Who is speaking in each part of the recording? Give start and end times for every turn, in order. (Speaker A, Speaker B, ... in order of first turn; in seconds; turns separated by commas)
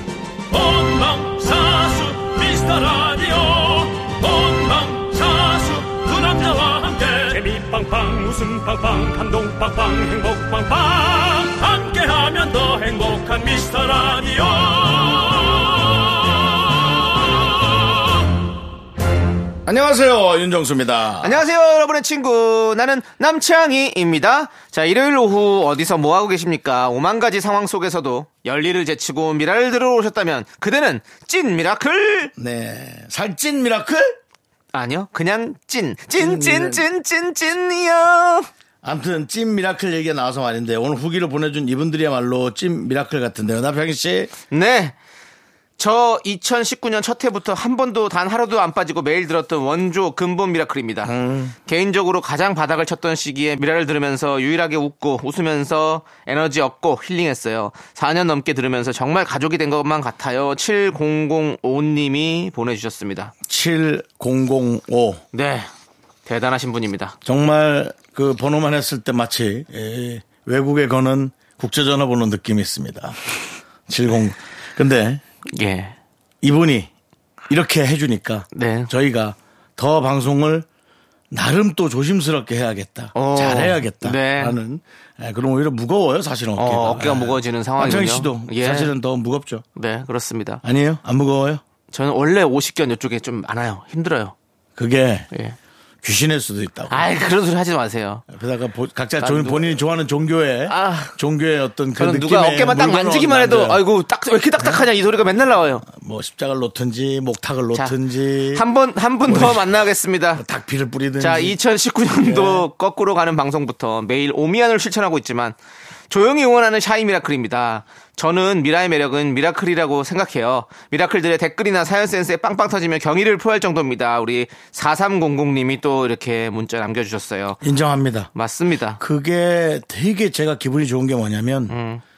Speaker A: 0.5-17.0, Speaker A: 17.5-17.8, Speaker B: 19.6-21.4, Speaker C: 21.2-32.3, Speaker B: 32.4-34.2, Speaker C: 34.7-38.5, Speaker B: 36.2-36.8, Speaker B: 38.8-44.3, Speaker C: 44.5-45.0, Speaker C: 45.8-51.1, Speaker B: 51.0-51.5, Speaker C: 51.6-63.3, Speaker B: 63.4-65.2, Speaker C: 65.3-65.7, Speaker C: 66.2-67.2, Speaker B: 67.2-73.2, Speaker B: 73.9-75.2, Speaker C: 75.5-75.9, Speaker B: 76.4-76.9, Speaker B: 77.5-80.7, Speaker C: 78.5-78.9, Speaker B: 81.3-89.6, Speaker C: 83.1-84.6, Speaker C: 86.6-88.9, Speaker C: 89.8-90.6, Speaker B: 90.6-91.6, Speaker C: 91.9-94.3, Speaker B: 94.8-95.3, Speaker B: 96.0-97.1, Speaker C: 96.9-98.2, Speaker B: 98.3-103.8, Speaker C: 99.2-99.8, Speaker C: 100.7-101.1, Speaker C: 102.0-105.8, Speaker B: 104.6-104.8, Speaker B: 105.8-108.6, Speaker C: 108.5-110.4, Speaker B: 109.2-109.7, Speaker B: 110.3-111.6, Speaker C: 111.2-115.5, Speaker B: 112.2-112.7, Speaker C: 116.1-127.6, Speaker B: 127.6-128.3, Speaker C: 128.3-129.0, Speaker B: 129.0-131.7, Speaker C: 131.7-132.0